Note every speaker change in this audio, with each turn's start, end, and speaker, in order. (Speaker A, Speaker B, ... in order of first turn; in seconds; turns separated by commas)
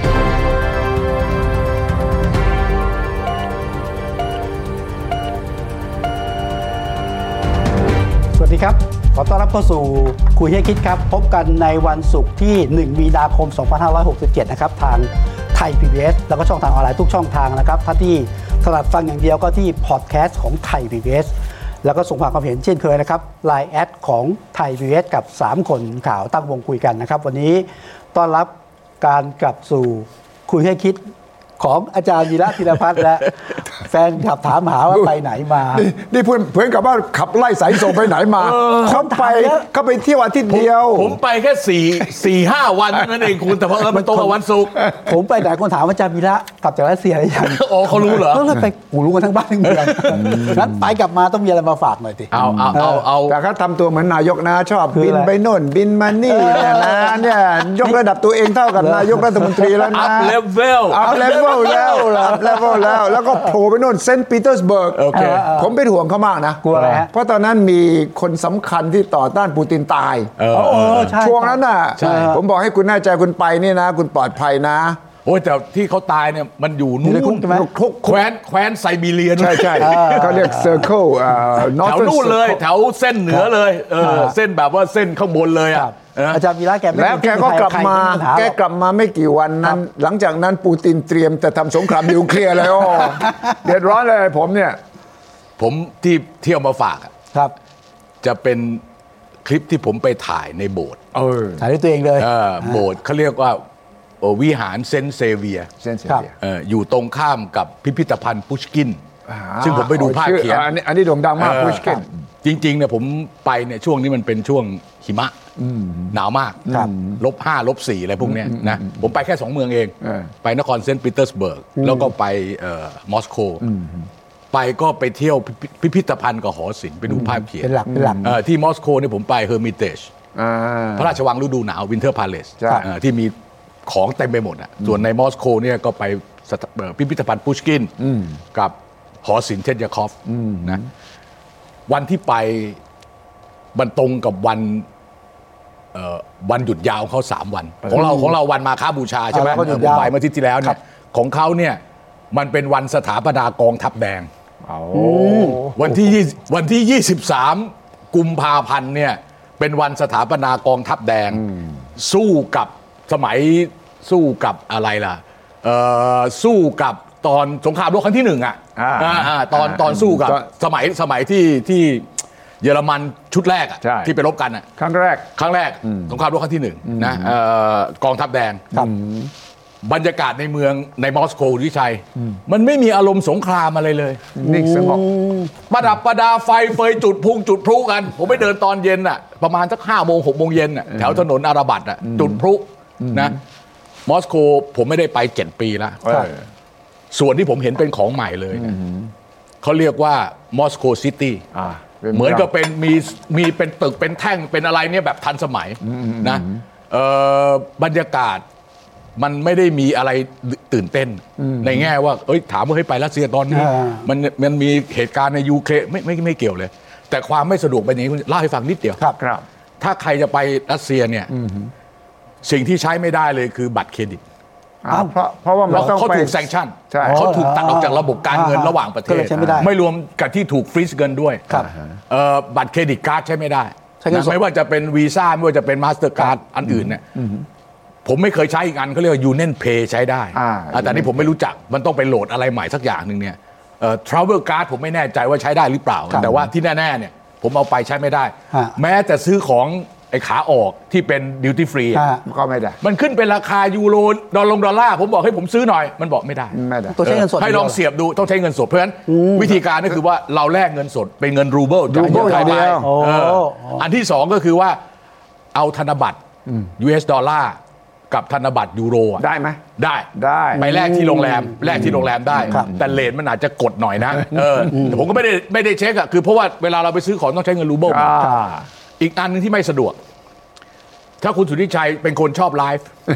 Speaker A: 8.4-21.3, Speaker A: 21.8-31.0, Speaker A: 31.6-35.9, Speaker B: 35.7-41.2, Speaker C: 38.4-38.9, Speaker A: 38.9-39.7, Speaker C: 40.5-44.8, Speaker A: 43.9-53.0, Speaker C: 47.4-48.5, Speaker C: 49.6-50.6, Speaker B: 50.1-50.8, Speaker C: 52.3-53.4, Speaker B: 52.4-70.3, Speaker A: 54.9-55.3, Speaker A: 56.3-57.3, Speaker A: 58.8-60.0, Speaker C: 59.9-62.3, Speaker A: 61.0-63.2, Speaker C: 64.9-65.5, Speaker A: 65.1-65.7, Speaker A: 66.6-67.1, Speaker C: 66.7-67.0, Speaker C: 70.4-71.1, Speaker A: 70.5-72.4, Speaker B: 70.9-75.0, Speaker C: 72.0-72.3, Speaker C: 75.2-77.5, Speaker A: 77.0-77.7, Speaker B: 77.5-78.2, Speaker C: 78.0-80.3, Speaker B: 79.3-82.6, Speaker A: 79.8-80.9, Speaker C: 81.8-86.4, Speaker A: 84.0-84.3, Speaker A: 85.8-88.5, Speaker B: 86.9-94.8, Speaker C: 95.6-97.1, Speaker C: 98.2-98.8, Speaker C: 99.4-101.0, Speaker B: 101.1-101.6, Speaker A: 101.6-102.8, Speaker C: 102.2-103.6, Speaker C: 104.2-105.7, Speaker B: 105.8-106.3, Speaker C: 106.4-109.0, Speaker B: 109.2-112.1, Speaker C: 109.6-110.7, Speaker C: 111.4-111.9, Speaker C: 112.4-115.3, Speaker B: 115.6-117.2, Speaker C: 116.1-123.6, Speaker B: 118.2-119.0, Speaker B: 120.0-120.3, Speaker A: 121.8-122.0, Speaker B: 123.6-124.1, Speaker C: 124.5-130.1, Speaker B: 127.1-128.4, Speaker A: 127.6-128.2, Speaker B: 130.3-131.2, Speaker C: 131.0-133.3, Speaker B: 132.6-132.9, Speaker C: 133.8-137.9, Speaker B: 138.0-138.4, Speaker C: 138.5-140.8, Speaker B: 140.2-140.9, Speaker C: 141.9-142.8, Speaker C: 143.7-144.8, Speaker C: 145.9-151.8, Speaker A: 147.9-148.3, Speaker A: 149.3-150.8, Speaker B: 149.5-150.0, Speaker C: 152.3-154.3, Speaker B: 154.6-156.1, Speaker A: 154.9-155.6, Speaker C: 155.7-161.4, Speaker B: 161.3-161.8, Speaker C: 162.0-172.1, Speaker B: 168.8-170.4, Speaker C: 172.6-174.6, Speaker B: 173.8-174.1, Speaker B: 174.8-175.3, Speaker C: 175.3-178.7, Speaker B: 175.8-176.1, Speaker B: 176.8-177.3, Speaker B: 178.7-179.3, Speaker C: 179.8-184.2, Speaker B: 184.3-185.0, Speaker A: 184.4-185.5, Speaker C: 185.7-193.4, Speaker B: 190.9-191.2, Speaker B: 192.0-192.4, Speaker B: 193.0-193.4, Speaker C: 194.1-196.0, Speaker B: 196.0-196.4, Speaker C: 197.1-198.7, Speaker B: 198.5-199.1, Speaker C: 199.6-201.4, Speaker B: 201.5-202.5, Speaker C: 202.1-208.4, Speaker B: 205.8-206.6, Speaker C: 209.2-219.0, Speaker B: 211.4-211.9, Speaker A: 213.5-214.0, Speaker B: 219.2-219.4, Speaker C: 219.8-221.3, Speaker B: 221.3-221.7, Speaker C: 222.4-224.2, Speaker B: 224.8-227.2, Speaker C: 225.7-231.5, Speaker A: 227.0-229.7, Speaker B: 229.3-229.6, Speaker B: 231.5-231.9, Speaker C: 232.1-237.0, Speaker A: 234.0-234.4, Speaker B: 236.7-237.4, Speaker C: 238.0-252.0, Speaker B: 240.3-241.3, Speaker B: 246.1-246.5, Speaker A: 251.9-252.2, Speaker B: 252.2-252.8, Speaker C: 252.8-264.8, Speaker B: 256.5-257.0, Speaker A: 256.9-257.8, Speaker A: 259.1-259.5, Speaker B: 261.9-262.9, Speaker A: 262.1-263.8, Speaker C: 265.5-266.2, Speaker C: 266.8-267.6, Speaker C: 268.1-269.2, Speaker B: 269.2-269.6, Speaker C: 269.8-278.2, Speaker B: 270.1-270.6, Speaker A: 270.6-272.0, Speaker B: 271.7-273.0, Speaker A: 274.7-275.0, Speaker B: 277.9-278.6, Speaker C: 279.0-280.0, Speaker C: 281.2-282.9